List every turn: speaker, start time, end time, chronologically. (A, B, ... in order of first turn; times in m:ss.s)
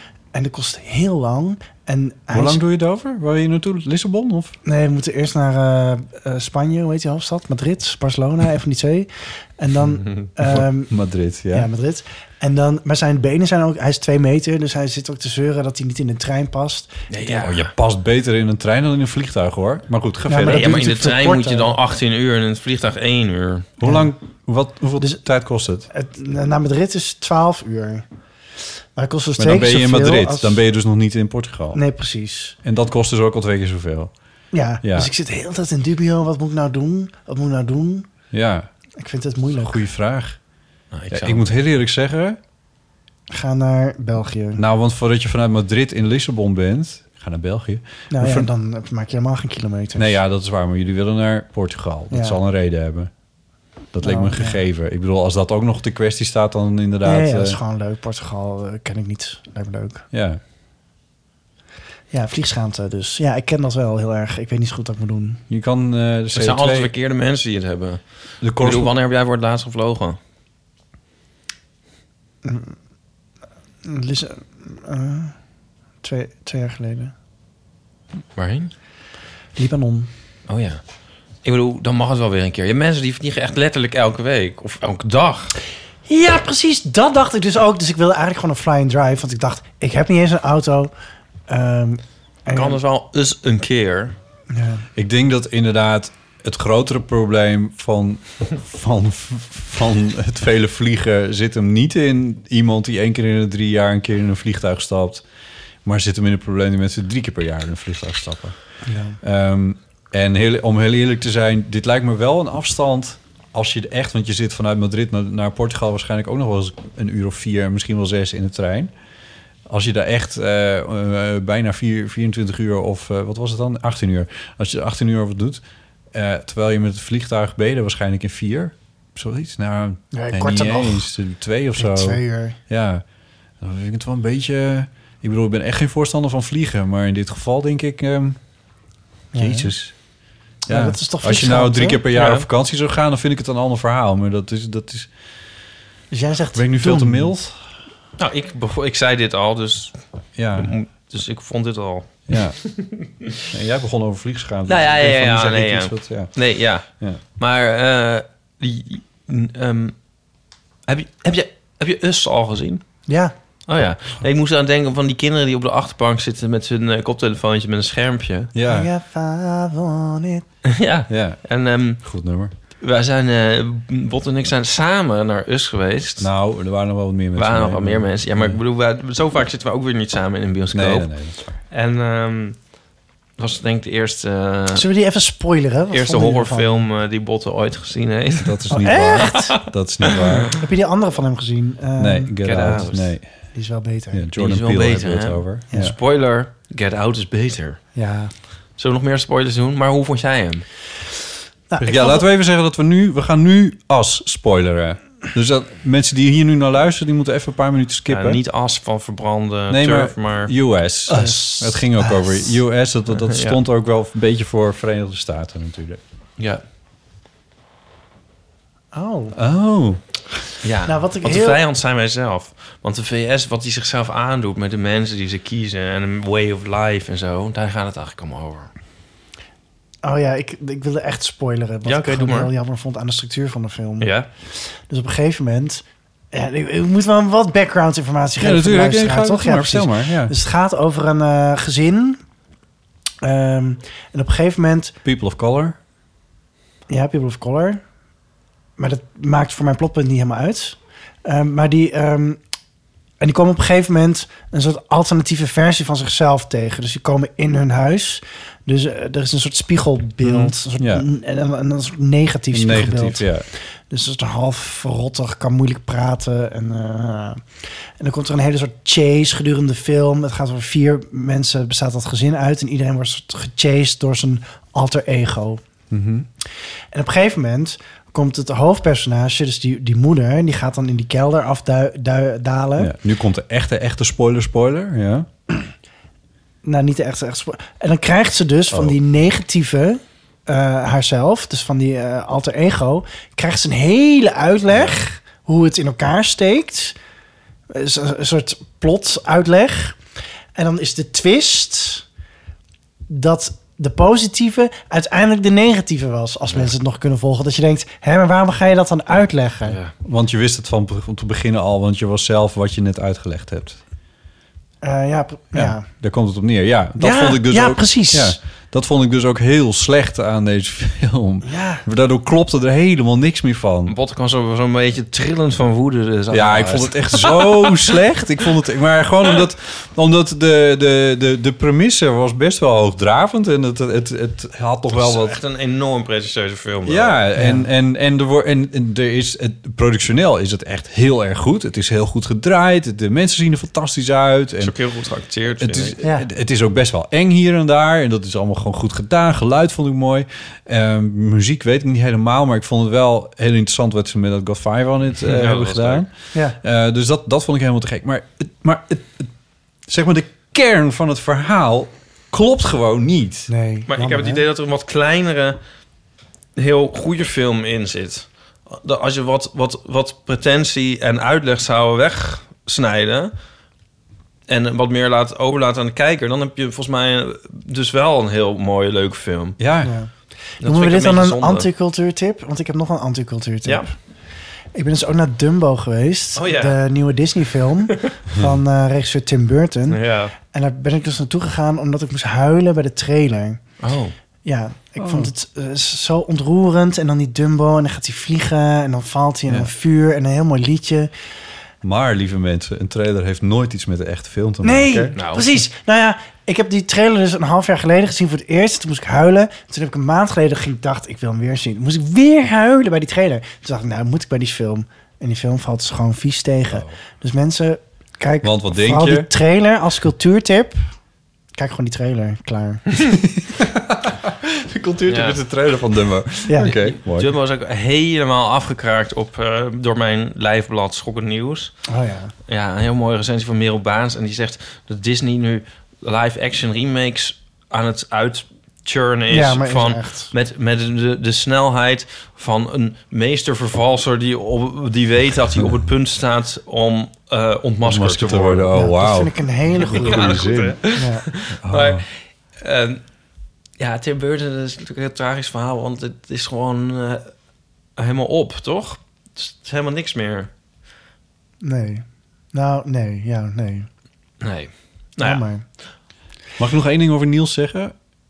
0:00.3-0:02.6 A
0:02.3-0:04.6 B
0:04.6-0:10.9 A
0:10.4-0:11.7 B
0:11.5-0:17.0 A
0:17.1-0:17.7 C
0:17.3-0:21.0 B
0:20.3-0:21.8 A
0:20.5-0:23.7 C
0:23.8-0:25.9 B
0:23.8-0:24.1 A
0:25.9-0:28.0 A
0:29.0-0:30.6 A
0:29.4-0:31.8 B
0:31.7-0:32.6 A
0:32.6-0:34.1 B
0:34.5-0:38.1 A
0:34.8-0:35.1 B
0:38.3-0:38.7 B
0:39.0-0:39.8 A
0:39.6-0:40.4 B
0:40.9-0:41.5 C
0:41.1-0:42.4 B
0:43.3-0:44.6 A
0:44.6-0:48.5 B
0:48.1-0:50.2 A
0:50.0-0:53.1 B
0:52.1-0:52.4 A
0:53.9-0:57.6 B
0:54.0-0:54.6 A
0:57.0-1:00.1 A
1:00.1-1:00.4 B
1:02.1-1:05.4 A
1:05.5-1:06.9 B
1:06.3-1:10.2 C
1:08.4-1:08.9 B
1:12.4-1:12.8 A
1:13.8-1:15.4 A
1:16.0-1:17.1 A
1:18.4-1:18.7 C
1:19.6-1:20.1 A
1:20.5-1:20.8 C
1:21.4-1:25.5 C
1:26.1-1:30.9 A
1:31.5-1:32.8 A
1:32.5-1:34.2 C
1:34.5-1:34.8 A
1:35.0-1:45.2 B
1:45.8-1:48.6 B
1:48.8-1:49.2 A
1:49.2-1:58.9 B
1:59.7-2:05.6 B
2:06.1-2:13.0 B
2:10.1-2:11.1 A
2:11.8-2:12.6 A
2:13.6-2:18.4 B
2:19.3-2:19.7 A
2:19.4-2:20.0 B
2:20.7-2:25.1 B
2:20.7-2:22.0 A
2:22.2-2:22.5 C
2:26.1-2:27.3 A
2:26.6-2:27.6 B
2:28.2-2:30.0 C
2:30.4-2:30.8 B
2:30.6-2:32.9 C
2:32.3-2:32.6 B
2:33.5-2:36.3 B
2:34.7-2:40.0 C
2:36.9-2:37.2 B
2:40.9-2:42.8 C
2:43.1-2:43.3 A
2:43.7-2:48.5 C
2:48.5-2:48.9 B
2:48.7-2:50.4 A
2:50.7-2:52.0 C
2:51.1-2:51.4 B
2:52.0-2:52.5 B
2:52.8-2:56.3 C
2:56.2-2:58.6 B
2:57.4-3:01.1 C
3:00.7-3:01.6 B
3:01.7-3:02.6 C
3:03.4-3:04.9 C
3:04.7-3:06.9 A
3:05.9-3:08.6 C
3:08.4-3:10.6 B
3:08.7-3:09.6 A
3:10.5-3:12.8 A
3:12.0-3:13.3 B
3:12.4-3:13.1 C
3:13.5-3:14.2 A
3:14.1-3:16.0 B
3:14.4-3:17.8 C
3:18.0-3:18.3 A
3:18.8-3:20.7 C
3:21.7-3:22.2 A
3:21.8-3:28.4 B
3:28.1-3:30.5 C
3:29.7-3:36.0 B
3:31.1-3:32.6 A
3:33.1-3:33.6 C
3:38.9-3:39.4 A
3:39.4-3:40.0 B
3:40.6-3:48.7 C
3:40.9-3:41.6 A
3:50.0-4:02.2 A
3:51.8-3:52.5 C
3:54.0-3:54.3 C
3:58.4-4:00.3 B
4:03.2-4:05.0 A
4:05.0-4:05.8 B
4:06.9-4:07.8 A
4:08.8-4:12.4 A
4:13.2-4:27.4 A
4:20.2-4:21.1 B
4:22.5-4:23.5 B
4:28.0-4:35.6 A
4:35.9-4:36.3 B
4:36.9-4:42.9 A
4:42.8-4:45.3 B
4:46.6-4:57.0 A
4:48.7-4:49.0 B
4:54.7-4:55.0 B
4:57.7-5:00.0 A
5:00.6-5:02.0 A
5:03.1-5:09.8 A
5:09.7-5:09.9 C
5:10.0-5:13.8 B
5:14.8-5:15.9 A
5:15.5-5:24.0 B
5:17.0-5:18.4 A
5:21.4-5:21.8 A
5:23.9-5:27.9 C
5:26.3-5:35.4 B
5:34.9-5:37.2 C
5:36.9-5:44.8 B
5:37.4-5:37.6 A
5:44.6-5:46.0 C
5:45.6-5:56.1 B
5:55.2-5:56.1 C
5:56.6-5:59.3 B
5:59.9-6:03.5 B
6:03.5-6:04.4 A
6:03.9-6:05.6 C
6:06.6-6:13.3 C
6:14.5-6:19.6 C
6:19.6-6:19.9 B
6:19.8-6:20.1 A
6:20.6-6:24.0 A
6:20.6-6:21.7 C
6:24.8-6:33.6 A
6:26.4-6:26.8 C
6:29.9-6:30.3 C
6:33.8-6:34.1 C
6:34.4-6:41.1 A
6:35.0-6:35.3 B
6:41.8-6:45.1 B
6:44.6-7:00.8 A
6:45.2-6:45.5 C
6:58.4-6:59.3 B
7:01.6-7:02.8 A
7:03.1-7:07.3 B
7:05.1-7:05.4 C
7:06.6-7:11.8 C
7:11.9-7:12.3 A
7:12.5-7:28.7 C
7:19.3-7:20.3 A
7:27.8-7:30.9 B
7:28.7-7:31.2 A
7:29.8-7:33.0 C
7:31.6-7:32.0 B
7:33.8-7:37.3 C
7:38.0-7:40.5 C
7:41.6-7:43.9 A
7:44.4-7:45.4 C
7:45.2-7:45.6 A
7:46.6-7:48.0 B